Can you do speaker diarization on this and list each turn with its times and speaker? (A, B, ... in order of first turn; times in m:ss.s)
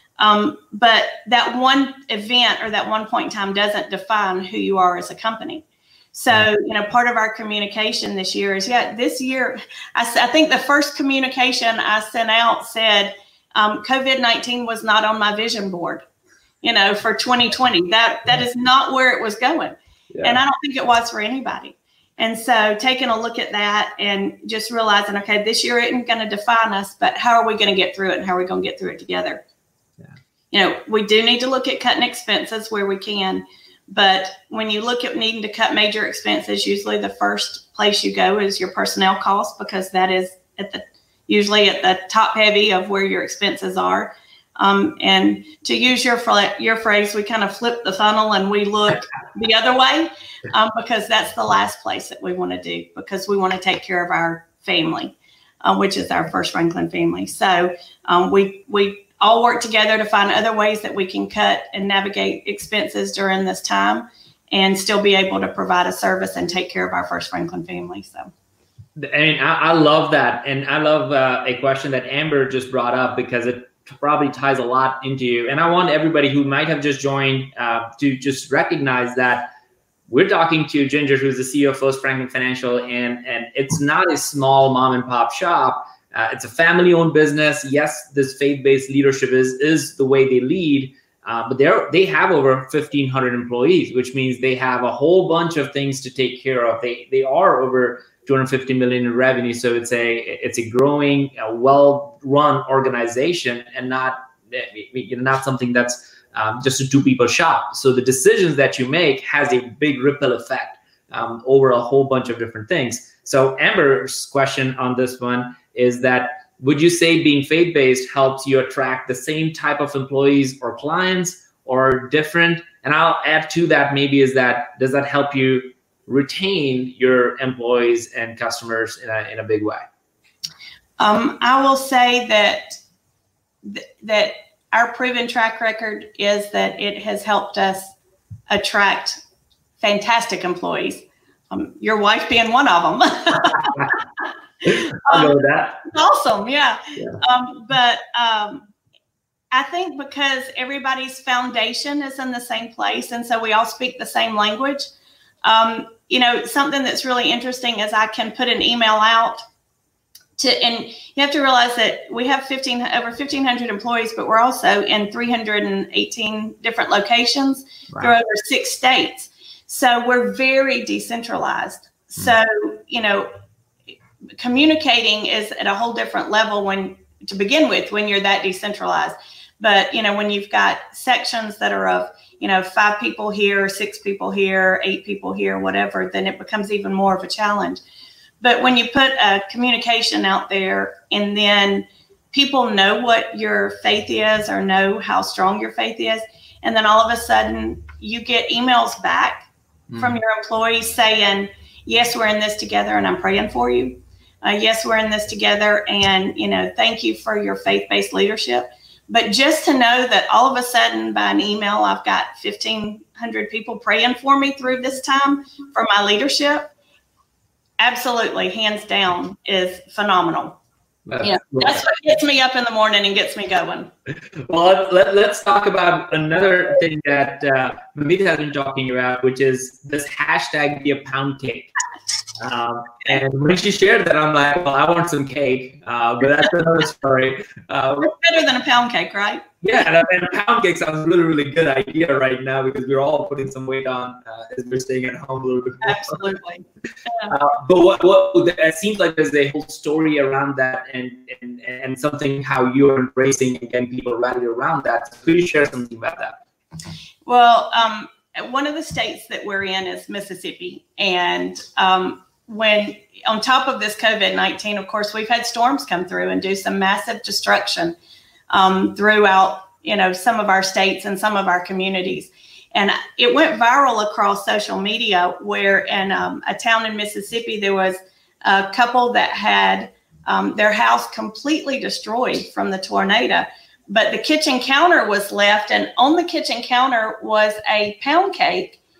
0:00.2-0:16.0 A
0:16.6-0:29.4 A
0:20.1-0:20.4 B
0:30.5-1:08.3 A
1:09.0-1:19.5 B
1:20.1-2:09.8 B
2:11.0-2:12.8 A
2:13.6-2:17.9 A
2:18.5-2:19.2 A
2:19.8-2:24.0 A
2:23.6-2:23.9 B
2:24.6-2:25.8 B
2:24.7-2:28.7 A
2:29.5-2:34.9 A
2:35.4-2:39.4 A
2:40.4-2:53.3 A
2:54.4-3:07.8 A
3:08.4-3:36.7 A
3:19.9-3:20.2 B
3:37.8-3:40.6 A
3:41.1-3:41.9 B
3:41.2-3:43.9 A
3:44.4-3:51.7 B
3:52.4-3:58.1 B
3:58.0-3:59.4 A
3:59.6-4:06.2 B
4:05.8-4:07.3 A
4:07.3-4:16.4 B
4:17.3-4:28.0 A
4:28.5-4:48.8 A